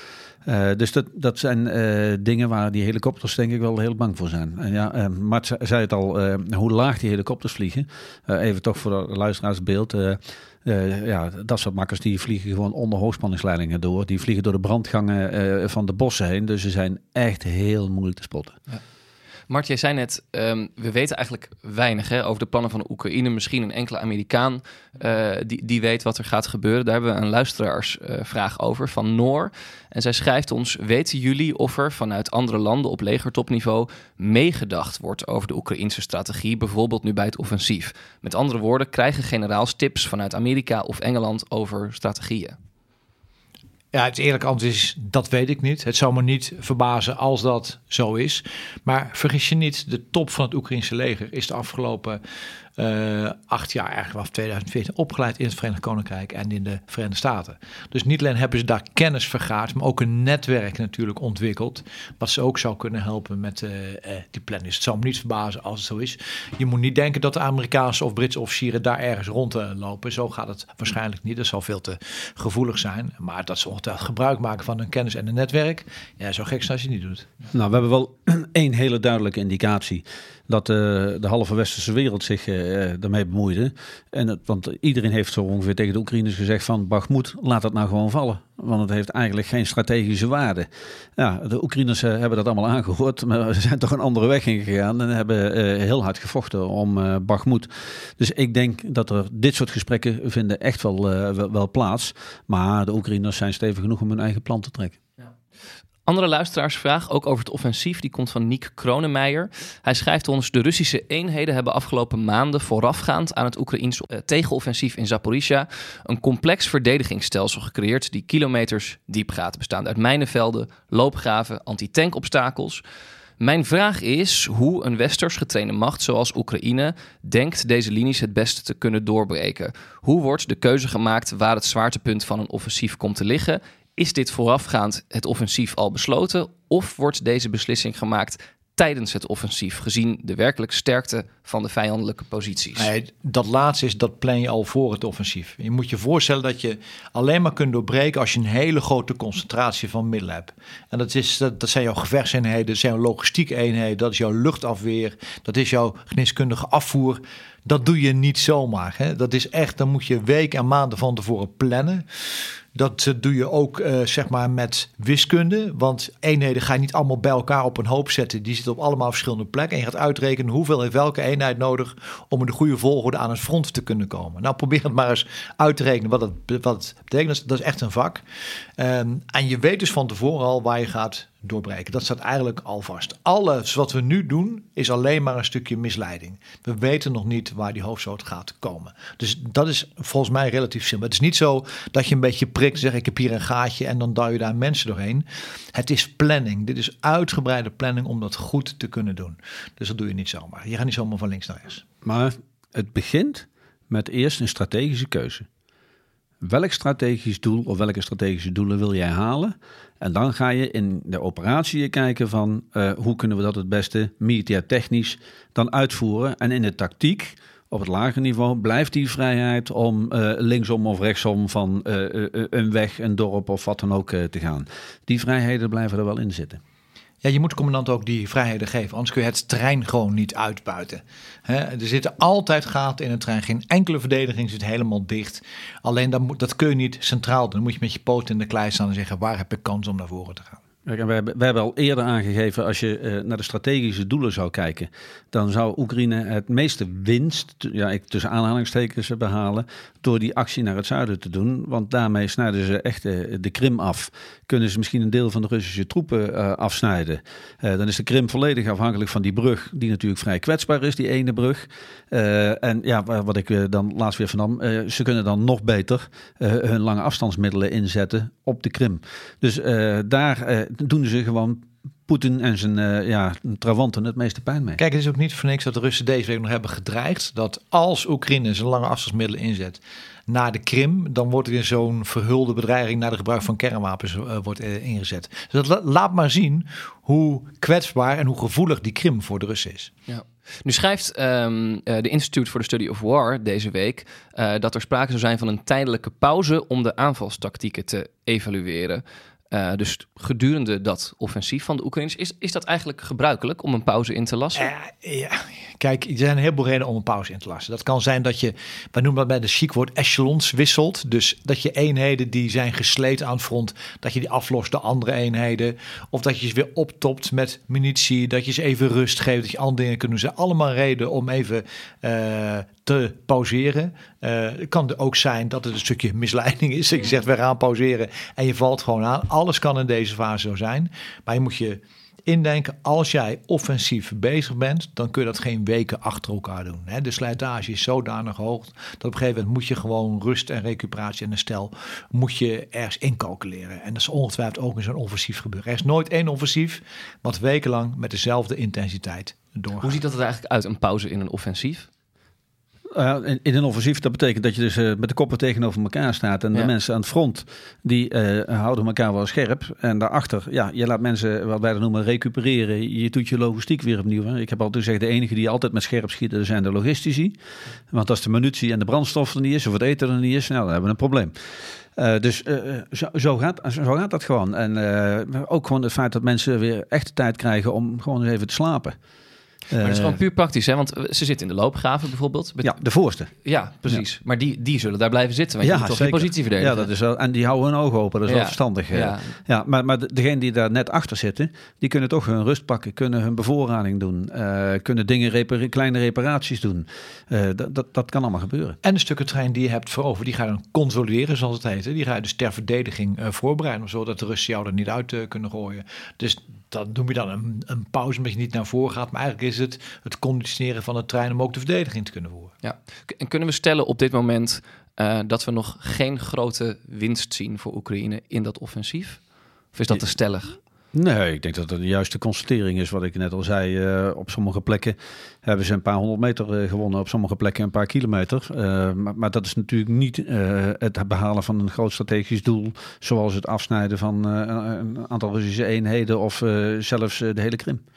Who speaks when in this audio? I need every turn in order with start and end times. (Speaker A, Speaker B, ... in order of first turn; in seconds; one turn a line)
Speaker A: 0.4-18.6
Speaker B: 19.5-42.5
Speaker C: 43.9-52.2
Speaker C: 52.8-77.3
Speaker A: 77.5-105.0
Speaker B: 106.0-122.8
Speaker B: 123.4-142.9
Speaker C: 142.8-178.2
Speaker C: 178.8-201.8
Speaker A: 202.0-205.5
Speaker A: 206.4-226.6
Speaker C: 227.2-240.6
Speaker A: 240.8-274.8
Speaker C: 274.8-289.9
Speaker B: 290.1-304.7
Speaker C: 304.6-350.0
Speaker B: 349.8-351.9
Speaker A: 352.9-367.4
Speaker A: 367.9-371.3
Speaker A: 371.9-378.9
Speaker A: 379.7-380.2
Speaker B: 379.8-382.7
Speaker A: 382.6-383.3
Speaker B: 383.4-386.9
Speaker A: 385.6-398.8
Speaker B: 388.3-389.3
Speaker C: 398.8-412.5
Speaker B: 412.6-419.2
Speaker B: 419.7-420.6
Speaker A: 420.9-437.8